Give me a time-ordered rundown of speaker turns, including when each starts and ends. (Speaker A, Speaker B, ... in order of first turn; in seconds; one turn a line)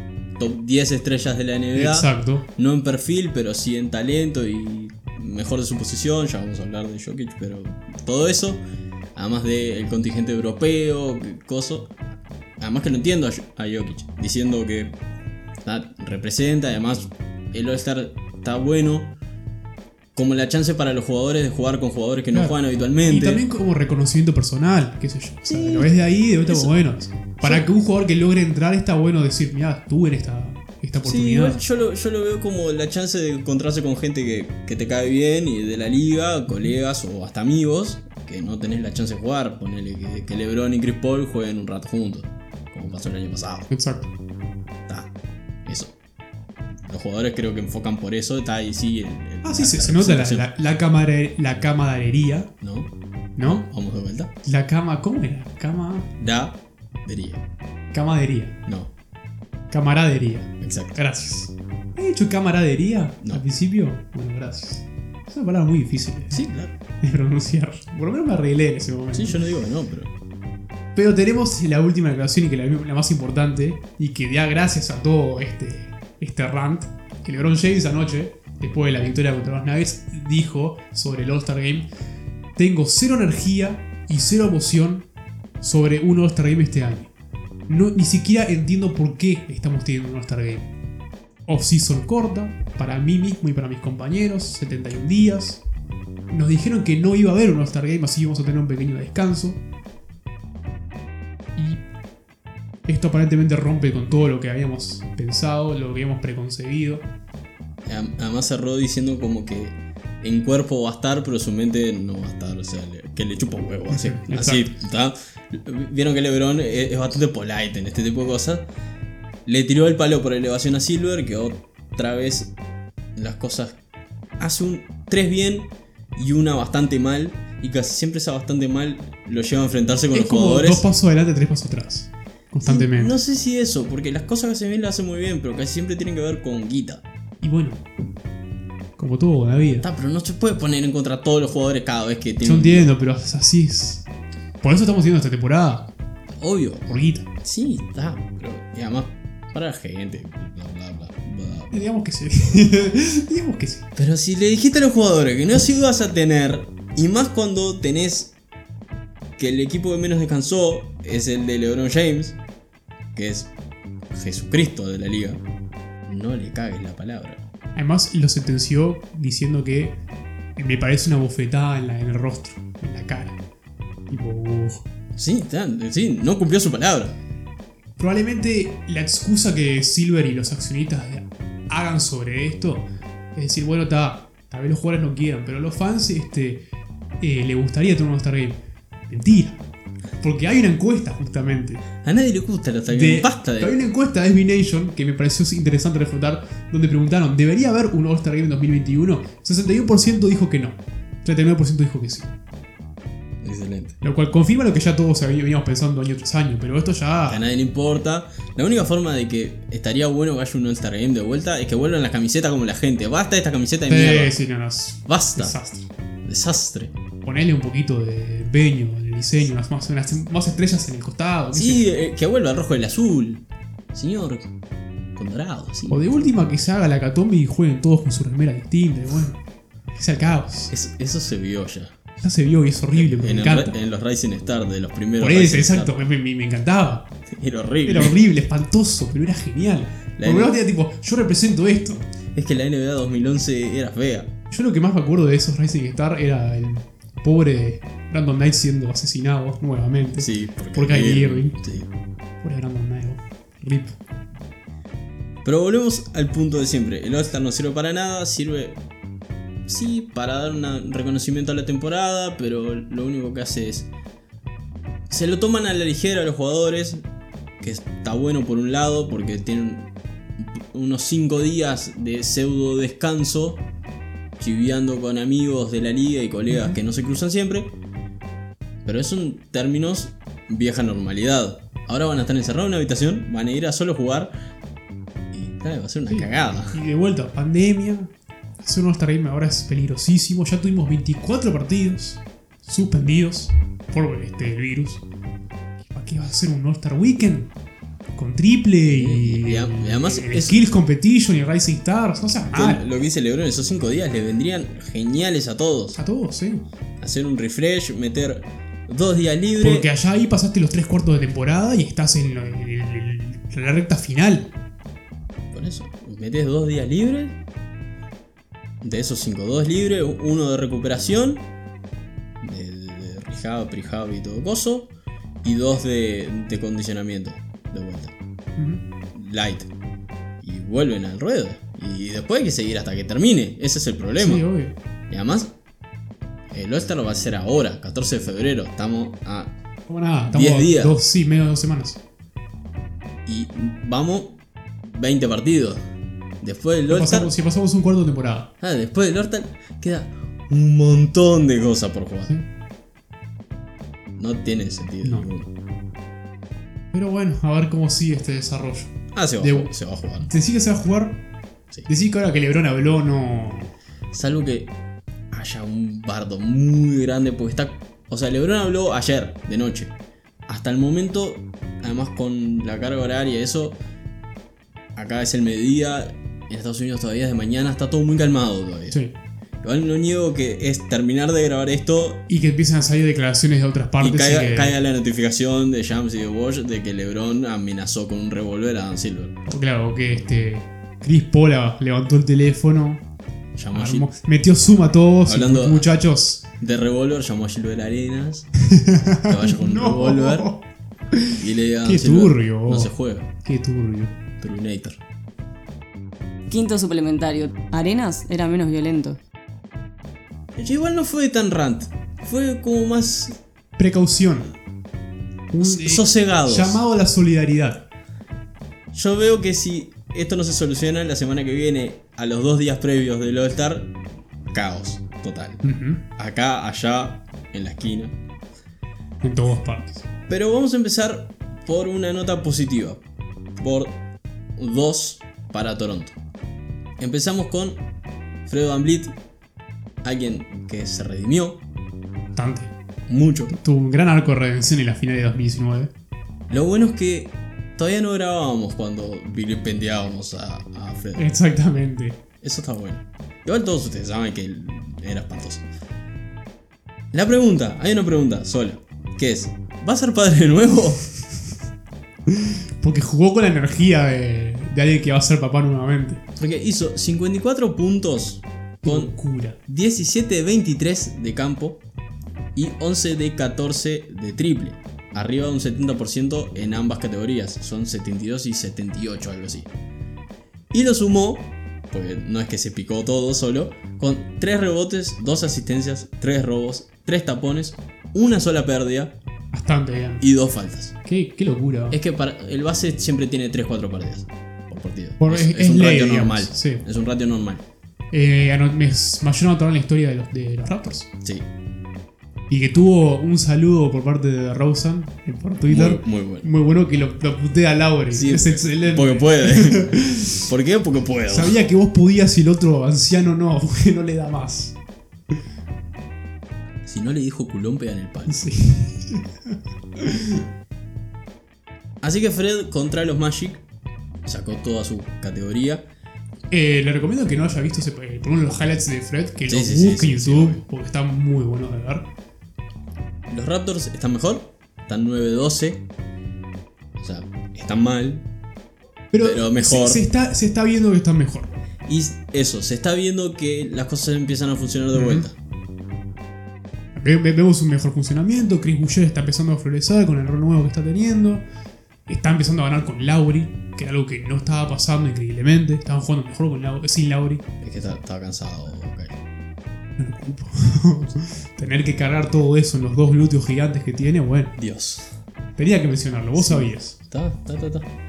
Speaker A: 0.4-8.6
Speaker B: 1.7-2.5
Speaker A: 9.1-11.9
Speaker A: 12.6-15.0
Speaker A: 15.6-19.1
Speaker A: 20.1-23.4
Speaker B: 22.3-31.6
Speaker A: 25.4-25.9
Speaker A: 26.5-26.7
Speaker A: 27.4-27.8
Speaker A: 31.0-43.7
Speaker B: 43.7-44.1
Speaker A: 45.6-45.9
Speaker A: 46.8-50.5
Speaker B: 49.4-52.5
Speaker A: 52.6-52.9
Speaker B: 53.4-53.7
Speaker A: 53.4-54.3
Speaker B: 54.4-56.1
Speaker A: 56.2-57.4
Speaker B: 57.9-58.6
Speaker A: 58.6-58.9
Speaker B: 59.7-66.5
Speaker A: 60.6-61.0
Speaker A: 66.3-66.7
Speaker B: 67.0-69.4
Speaker A: 69.1-70.1
Speaker B: 70.9-81.9
Speaker B: 82.5-85.1
Speaker B: 85.6-87.1
Speaker B: 87.7-90.7
Speaker B: 91.5-95.6
Speaker B: 96.3-99.6
Speaker B: 101.5-101.8
Speaker B: 102.8-107.1
Speaker A: 107.8-118.7
Speaker B: 113.9-114.7
Speaker A: 119.5-122.5
Speaker A: 123.2-123.8
Speaker A: 124.4-130.8
Speaker B: 130.1-133.1
Speaker A: 132.6-137.0
Speaker B: 137.4-137.8
Speaker B: 139.0-139.9
Speaker A: 139.8-142.9
Speaker B: 142.4-144.0
Speaker B: 144.6-145.9
Speaker A: 146.4-151.8
Speaker B: 146.9-147.3
Speaker B: 151.7-153.9
Speaker A: 153.9-158.3
Speaker A: 159.4-162.4
Speaker A: 163.1-163.5
Speaker A: 164.1-165.4
Speaker A: 166.1-167.4
Speaker B: 167.7-170.0
Speaker B: 170.6-173.4
Speaker B: 174.1-174.8
Speaker A: 175.1-177.2
Speaker B: 178.0-186.6
Speaker B: 187.2-189.6
Speaker B: 190.2-191.8
Speaker A: 192.0-193.7
Speaker B: 192.9-202.3
Speaker A: 203.4-203.9
Speaker B: 204.0-207.4
Speaker A: 207.2-214.3
Speaker B: 213.9-215.9
Speaker A: 215.1-215.6
Speaker A: 216.2-216.9
Speaker B: 217.2-221.8
Speaker A: 221.5-224.5
Speaker A: 225.2-226.7
Speaker B: 225.9-229.4
Speaker B: 229.9-230.7
Speaker A: 230.7-232.0
Speaker B: 232.2-233.7
Speaker A: 232.9-235.9
Speaker B: 235.2-237.1
Speaker A: 237.3-238.1
Speaker B: 237.8-242.1
Speaker A: 240.2-240.5
Speaker A: 242.3-244.3
Speaker B: 244.5-251.6
Speaker A: 250.2-251.9
Speaker B: 252.4-254.0
Speaker A: 255.4-258.8
Speaker A: 259.7-263.9
Speaker A: 265.1-267.1
Speaker A: 267.6-273.6
Speaker A: 274.4-277.7
Speaker B: 276.5-276.8
Speaker A: 278.8-284.3
Speaker A: 285.3-286.8
Speaker B: 286.1-295.0
Speaker B: 295.9-297.5
Speaker B: 298.1-302.8
Speaker A: 298.9-300.6
Speaker A: 302.5-306.0
Speaker B: 305.9-306.6
Speaker A: 307.0-309.9
Speaker B: 309.6-314.5
Speaker A: 315.5-317.4
Speaker A: 318.8-321.4
Speaker A: 322.4-324.9
Speaker A: 325.4-328.1
Speaker B: 328.6-328.8
Speaker A: 329.1-329.7
Speaker A: 330.4-334.4
Speaker B: 334.2-334.7
Speaker A: 335.1-335.5
Speaker A: 336.5-339.5
Speaker B: 339.9-342.0
Speaker A: 340.3-341.0
Speaker A: 343.2-345.8
Speaker A: 346.4-347.3
Speaker B: 346.9-348.5
Speaker A: 348.6-352.3
Speaker A: 354.1-355.5
Speaker B: 355.0-355.3
Speaker B: 356.9-361.2
Speaker A: 359.1-360.3
Speaker B: 361.9-363.7
Speaker A: 364.1-364.7
Speaker A: 365.3-369.9
Speaker A: 370.5-373.8
Speaker A: 374.9-379.0
Speaker A: 379.6-382.2
Speaker B: 382.3-384.8
Speaker A: 384.0-389.4
Speaker B: 389.4-393.0
Speaker A: 393.5-394.1
Speaker B: 393.7-396.4
Speaker A: 395.2-395.9
Speaker A: 396.6-398.5
Speaker B: 398.7-404.1
Speaker A: 399.3-400.5
Speaker A: 401.4-403.3
Speaker A: 404.4-405.0
Speaker C: 406.5-409.2
Speaker A: 410.6-413.4
Speaker B: 413.8-414.5
Speaker B: 415.5-417.9
Speaker A: 415.6-416.8
Speaker A: 418.9-423.9
Speaker A: 424.5-425.6
Speaker B: 425.6-426.0
Speaker A: 426.2-428.1
Speaker B: 429.2-430.0
Speaker A: 430.3-433.0
Speaker A: 433.6-434.0
Speaker A: 434.6-436.1
Speaker A: 437.0-437.8
Speaker A: 438.4-439.1
Speaker A: 440.0-441.6
Speaker B: 442.3-442.7
Speaker A: 443.1-443.5
Speaker B: 443.5-445.9
Speaker A: 446.5-451.3
Speaker B: 451.1-452.2
Speaker A: 452.4-455.6
Speaker A: 457.1-461.1
Speaker B: 462.8-466.2
Speaker A: 466.4-469.1
Speaker B: 468.8-469.6
Speaker A: 469.6-471.8
Speaker A: 472.5-479.7
Speaker A: 480.7-489.2
Speaker B: 489.5-490.2
Speaker A: 490.2-490.9
Speaker B: 491.0-492.0
Speaker A: 491.9-497.6
Speaker B: 495.2-496.8
Speaker B: 498.1-501.1
Speaker B: 502.5-510.4
Speaker A: 505.7-506.5
Speaker A: 508.1-511.6
Speaker B: 511.3-514.8
Speaker A: 516.8-518.4
Speaker B: 518.3-520.4
Speaker A: 522.0-523.6
Speaker A: 524.2-525.9
Speaker B: 526.5-532.1
Speaker A: 529.5-530.6
Speaker A: 533.3-535.9
Speaker A: 537.0-538.2
Speaker B: 539.1-541.5
Speaker A: 539.2-540.0
Speaker A: 541.9-545.3
Speaker B: 544.9-545.3
Speaker B: 546.9-551.4
Speaker B: 552.1-557.5
Speaker A: 557.6-559.2
Speaker B: 560.0-564.5
Speaker A: 564.6-565.2
Speaker B: 565.6-567.0
Speaker A: 566.4-567.9